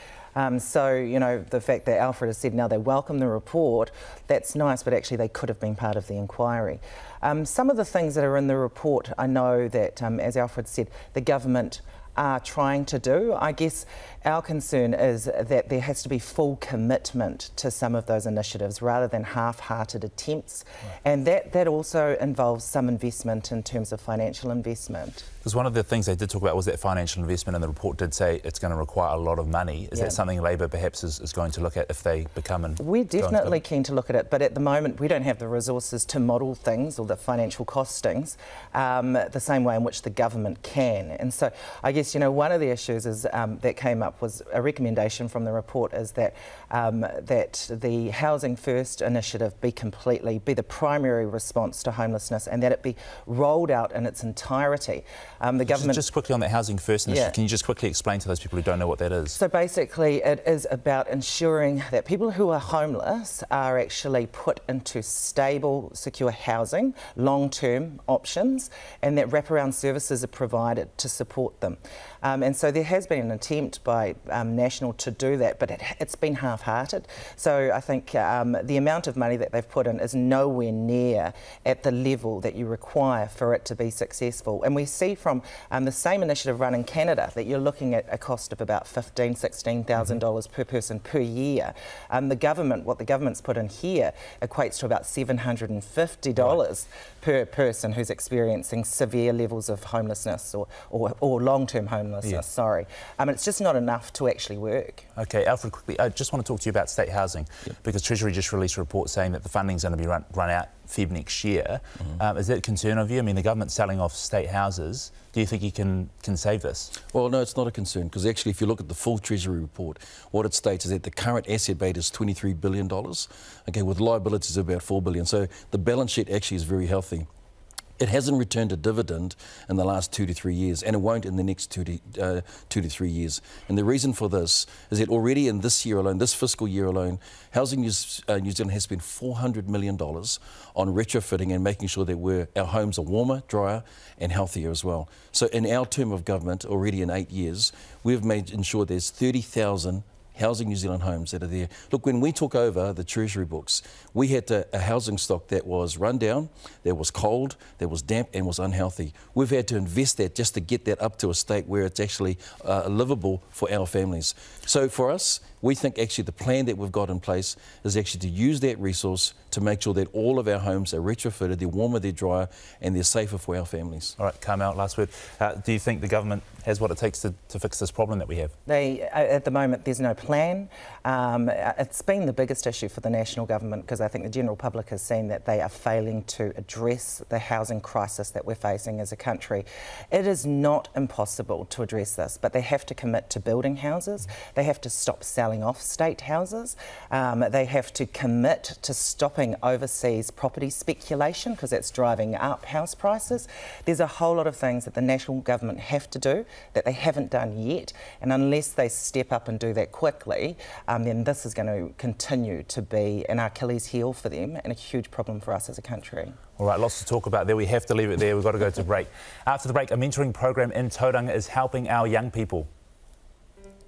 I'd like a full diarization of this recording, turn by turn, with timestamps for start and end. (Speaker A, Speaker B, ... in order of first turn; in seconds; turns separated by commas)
Speaker A: 0.3-25.3, Speaker B: 25.4-33.5, Speaker A: 29.9-30.2, Speaker A: 32.8-56.0, Speaker B: 55.7-59.4, Speaker A: 57.1-57.3, Speaker A: 59.3-105.0, Speaker B: 105.2-116.9, Speaker C: 117.1-127.3, Speaker C: 128.0-174.1, Speaker B: 174.2-178.5, Speaker A: 178.7-216.4, Speaker B: 216.6-222.7